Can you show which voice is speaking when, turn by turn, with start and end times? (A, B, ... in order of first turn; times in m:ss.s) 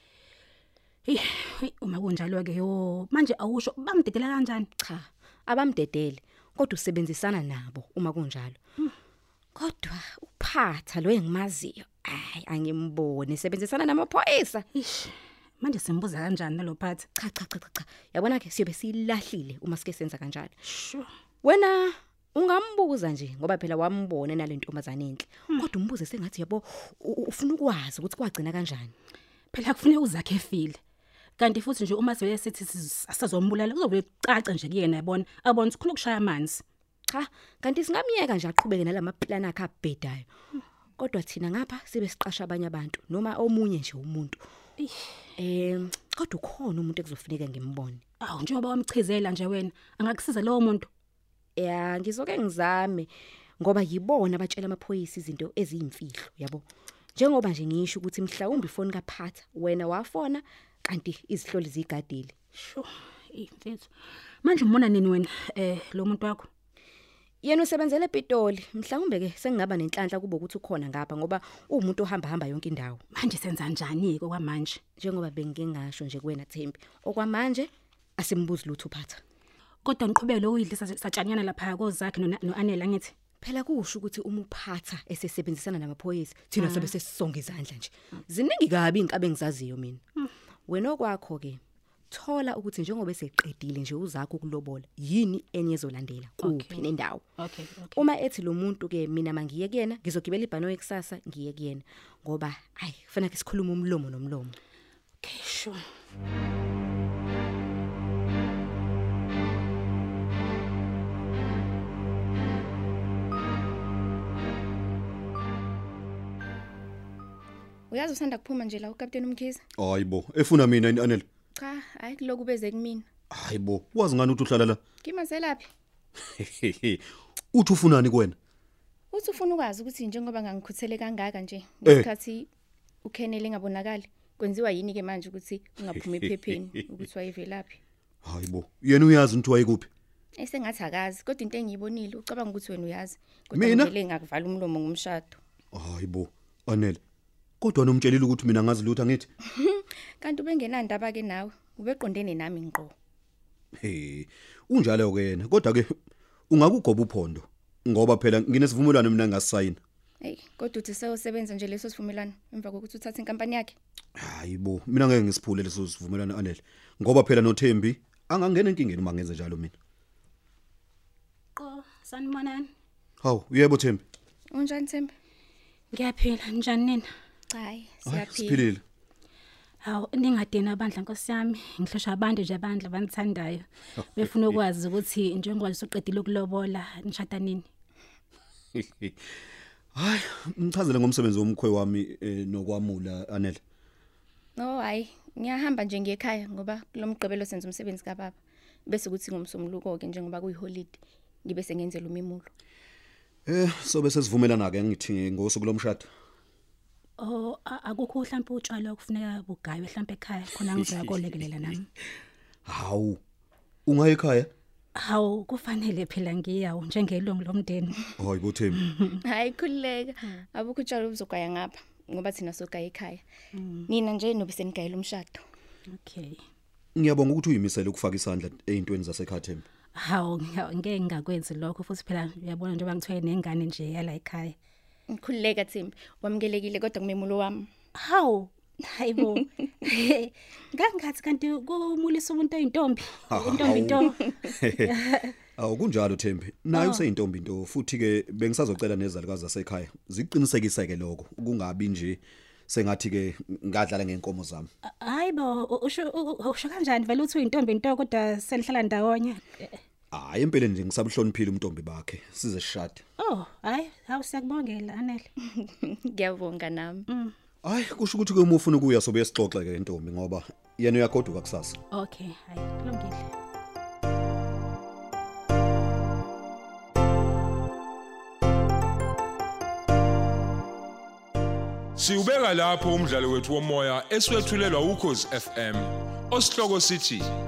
0:01.0-0:04.7 A
0:04.8-0:08.6 B
0:09.5-0:14.6 B
0:14.7-0:17.0 A
0:17.2-0:20.6 B
0:20.6-0:21.1 A
0:21.4-0:28.9 B
0:29.5-0:30.8 A
0:31.4-0:36.6 A
0:37.1-0:40.3 B
0:41.0-0:44.4 B
0:45.4-0:48.0 B
0:48.2-0:50.9 A
0:51.6-0:56.6 B
0:57.2-1:02.3 B
1:02.6-1:03.9 A
1:04.4-1:06.5 A
1:07.4-1:13.0 B
1:13.1-1:14.8 A
1:15.0-1:19.2 B
1:19.8-1:23.1 A
1:23.4-1:30.0 B
1:26.6-1:26.9 A
1:30.7-1:31.6 B
1:32.1-1:37.2 B
1:36.4-1:36.8 A
1:37.4-1:38.0 A
1:37.9-1:44.6 B
1:45.2-1:45.8 A
1:57.9-1:59.6 C
1:59.8-2:01.2 D
2:01.5-2:03.0 C
2:03.3-2:04.8 D
2:05.0-2:05.7 C
2:06.4-2:08.4 D
2:09.1-2:12.5 C
2:13.0-2:17.8 C
2:18.2-2:19.9 D
2:20.4-2:25.4 C
2:23.5-2:23.9 D
2:25.7-2:27.0 D
2:27.6-2:29.3 D
2:29.5-2:32.9 C
2:33.8-2:35.9 D
2:36.5-2:39.8 D
2:40.2-2:43.7 C
2:44.2-2:49.7 D
2:51.6-2:52.7 A
2:53.2-2:54.0 D
2:54.5-2:55.1 C
2:55.9-2:57.0 A
2:57.5-2:58.7 C
2:58.0-2:58.8 D
2:59.8-3:07.6 A
3:08.7-3:09.1 D
3:09.9-3:13.6 D
3:14.6-3:18.4 C
3:18.9-3:22.5 C
3:23.4-3:26.1 D
3:27.2-3:31.9 A
3:32.7-3:33.2 D
3:33.8-3:34.5 D
3:34.9-3:38.0 A
3:38.2-3:38.8 D
3:38.8-3:39.1 A
3:39.2-3:43.2 C
3:43.5-3:43.9 A
3:43.9-3:45.4 C
3:45.9-3:46.4 A
3:46.9-3:49.6 D
3:49.9-3:54.6 A
3:55.1-3:57.7 C
3:58.0-4:04.2 A
4:03.3-4:04.9 D
4:04.9-4:05.3 A
4:05.6-4:14.7 D
4:06.7-4:07.0 A
4:14.8-4:19.7 A
4:20.1-4:23.0 D
4:23.2-4:25.3 A
4:25.5-4:27.0 C
4:27.1-4:27.3 A
4:27.6-4:31.8 D
4:31.9-4:33.3 A
4:42.0-4:47.3 E